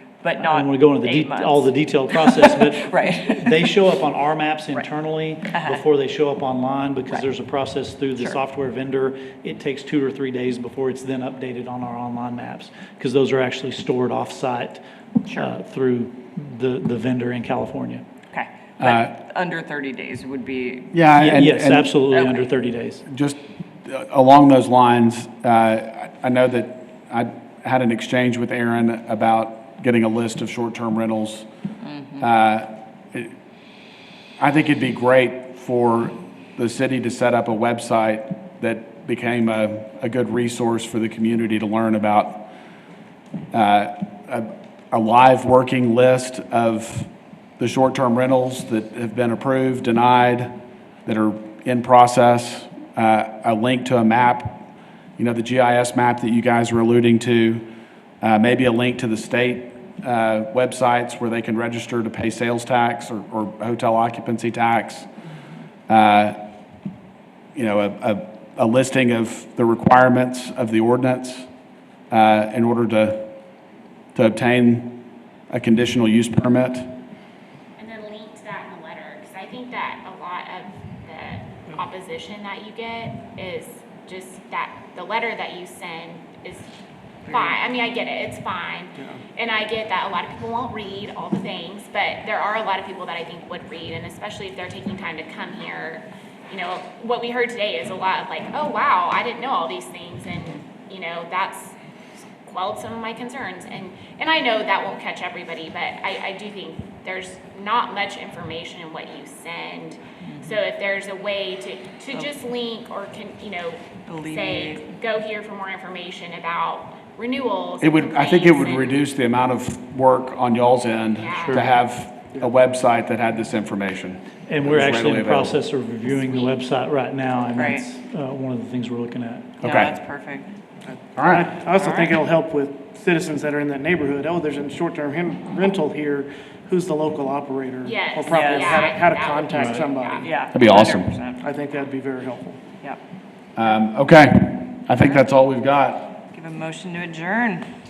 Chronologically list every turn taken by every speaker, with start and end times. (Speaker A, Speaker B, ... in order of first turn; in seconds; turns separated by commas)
Speaker A: 0.2-3.7, Speaker B: 0.4-18.0, Speaker A: 5.5-5.8, Speaker A: 18.3-21.0, Speaker C: 18.8-19.1, Speaker C: 20.9-21.9, Speaker B: 21.1-23.0, Speaker A: 22.1-22.5, Speaker C: 23.1-31.5, Speaker A: 31.8-32.3, Speaker C: 32.2-33.3, Speaker C: 34.4-42.5, Speaker C: 43.5-50.5, Speaker C: 51.0-54.6, Speaker C: 55.2-57.6, Speaker C: 58.2-65.1, Speaker C: 65.9-66.4, Speaker C: 67.5-71.5, Speaker C: 72.1-73.3, Speaker C: 74.1-75.0, Speaker C: 75.5-76.9, Speaker D: 77.8-86.7, Speaker E: 87.2-87.5, Speaker D: 87.3-101.7, Speaker D: 102.4-119.0, Speaker A: 110.2-110.6, Speaker A: 114.0-114.9, Speaker C: 117.8-125.6, Speaker D: 121.1-121.7, Speaker B: 124.5-129.5, Speaker D: 126.0-126.5, Speaker A: 127.5-127.8, Speaker C: 129.6-129.9, Speaker A: 129.6-130.5, Speaker E: 130.8-140.3, Speaker C: 131.2-131.5, Speaker A: 131.7-132.2, Speaker D: 137.8-140.3, Speaker A: 138.3-139.0, Speaker A: 140.2-141.4, Speaker C: 140.5-141.1, Speaker E: 141.4-142.6, Speaker C: 143.5-146.2, Speaker A: 145.0-145.2, Speaker A: 146.3-147.7